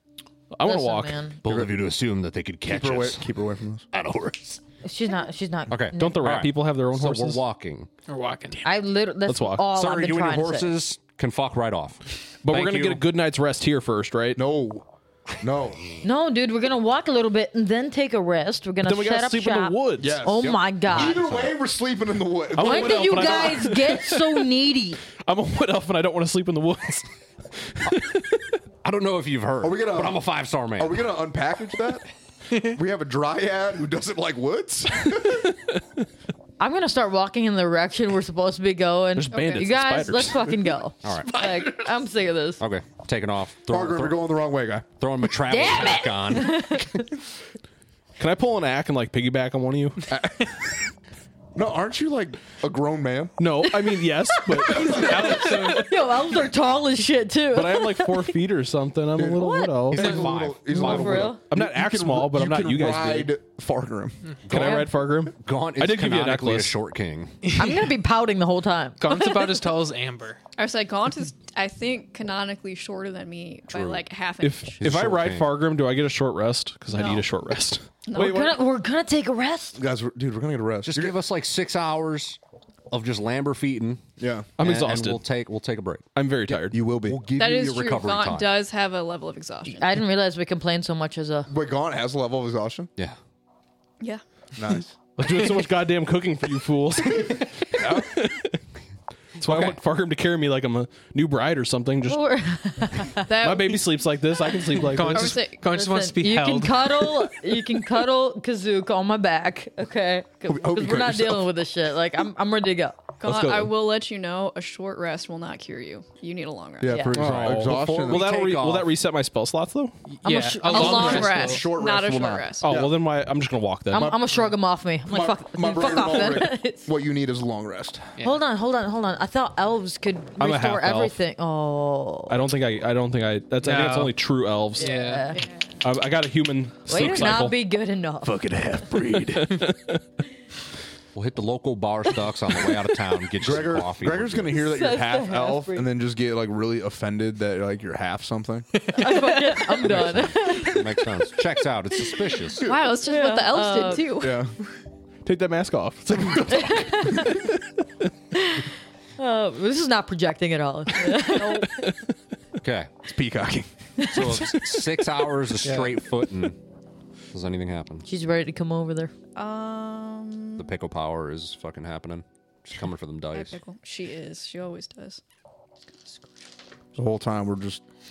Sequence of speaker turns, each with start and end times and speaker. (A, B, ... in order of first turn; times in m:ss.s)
0:00.5-0:01.2 A
0:00.6-0:01.4 B
0:01.4-0:03.3 C
0:01.5-0:01.7 D
0:02.7-0:03.9 D
0:03.9-0:04.6 C
0:04.8-0:06.3 B
0:05.7-0:07.9 C
0:05.9-0:07.4 A
0:08.1-0:08.6 E
0:08.6-0:10.7 B
0:09.3-0:09.7 A
0:09.7-0:13.0 C
0:12.4-0:14.4 A
0:14.4-0:14.9 D
0:15.4-0:15.8 D
0:16.0-0:21.2 B
0:18.8-0:20.2 A
0:20.0-0:23.7 D
0:20.4-0:21.6 C
0:22.5-0:24.5 A
0:22.6-0:25.0 B
0:25.2-0:27.1 A
0:27.7-0:28.6 A
0:28.8-0:31.0 C
0:29.6-0:30.2 D
0:30.8-0:32.0 D
0:32.6-0:35.5 D
0:36.6-0:42.6 B
0:39.2-0:40.6 A
0:39.3-0:39.7 F
0:41.0-0:41.7 C
0:42.6-0:44.4 C
0:43.7-0:44.9 D
0:45.0-0:46.8 C
0:45.5-0:47.1 B
0:48.2-0:50.1 A
0:50.1-0:50.5 D
0:51.6-0:53.4 D
0:53.4-0:55.8 A
0:54.5-0:55.2 D
0:54.7-0:58.3 B
0:54.7-0:55.9 E
0:57.5-1:00.3 A
0:59.2-1:04.2 D
0:59.4-1:01.4 B
0:59.9-1:01.3 C
1:00.9-1:03.3 A
1:04.5-1:07.4 C
1:04.5-1:06.7 A
1:04.5-1:04.9 B
1:07.4-1:07.9 E
1:07.6-1:09.6 B
1:09.0-1:10.4 E
1:10.6-1:15.0 F
1:13.7-1:14.1 C
1:14.4-1:18.6 A
1:14.8-1:15.6 C
1:16.9-1:17.3 F
1:18.1-1:18.6 F
1:18.2-1:19.8 B
1:19.8-1:21.2 D
1:20.8-1:22.4 C
1:22.9-1:24.0 C
1:24.2-1:24.5 D
1:24.6-1:25.2 A
1:24.6-1:26.1 C
1:26.2-1:26.9 A
1:26.7-1:27.6 D
1:27.0-1:28.6 C
1:27.4-1:29.9 F
1:29.7-1:31.5 B
1:31.5-1:32.9 D
1:34.6-1:35.0 D
1:35.2-1:38.6 A
1:37.8-1:38.1 D
1:39.4-1:42.2 A
1:42.1-1:43.3 B
1:43.3-1:44.0 F
1:43.3-1:45.4 A
1:44.8-1:47.3 E
1:45.1-1:45.6 F
1:45.5-1:53.0 B
1:50.5-1:51.5 D
1:53.2-1:57.1 F
1:53.2-1:53.7 A
1:56.8-1:58.3 D
1:56.9-1:57.2 B
1:57.1-2:00.0 A
1:57.2-1:58.9 C
2:00.1-2:01.7 E
2:00.2-2:01.3 B
2:00.6-2:02.8 F
2:01.3-2:03.0 D
2:02.6-2:04.2 A
2:03.9-2:04.3 D
2:03.9-2:06.9 B
2:05.1-2:08.1 D
2:08.2-2:12.4 B
2:10.4-2:11.2 A
2:12.3-2:14.9 A
2:13.6-2:14.2 E
2:14.8-2:15.4 E
2:14.8-2:15.4 B
2:15.3-2:15.8 F
2:15.8-2:17.6 A
2:16.9-2:18.4 B
2:18.3-2:19.6 D
2:18.9-2:20.0 A
2:21.2-2:24.6 C
2:23.4-2:28.7 D
2:24.6-2:25.9 B
2:28.9-2:31.0 B
2:29.8-2:32.7 C
2:32.6-2:34.4 F
2:32.9-2:34.1 B
2:34.2-2:34.5 D
2:35.2-2:37.7 A
2:36.2-2:36.5 D
2:36.5-2:37.5 B
2:38.4-2:41.9 B
2:41.2-2:42.0 A
2:41.3-2:41.7 F
2:42.6-2:42.9 C
2:43.1-2:44.3 D
2:44.0-2:46.6 C
2:45.6-2:46.0 E
2:47.3-2:48.1 C
2:48.1-2:49.1 B
2:49.4-2:50.7 F
2:50.6-2:53.6 C
2:53.3-2:55.2 F
2:57.0-2:57.8 D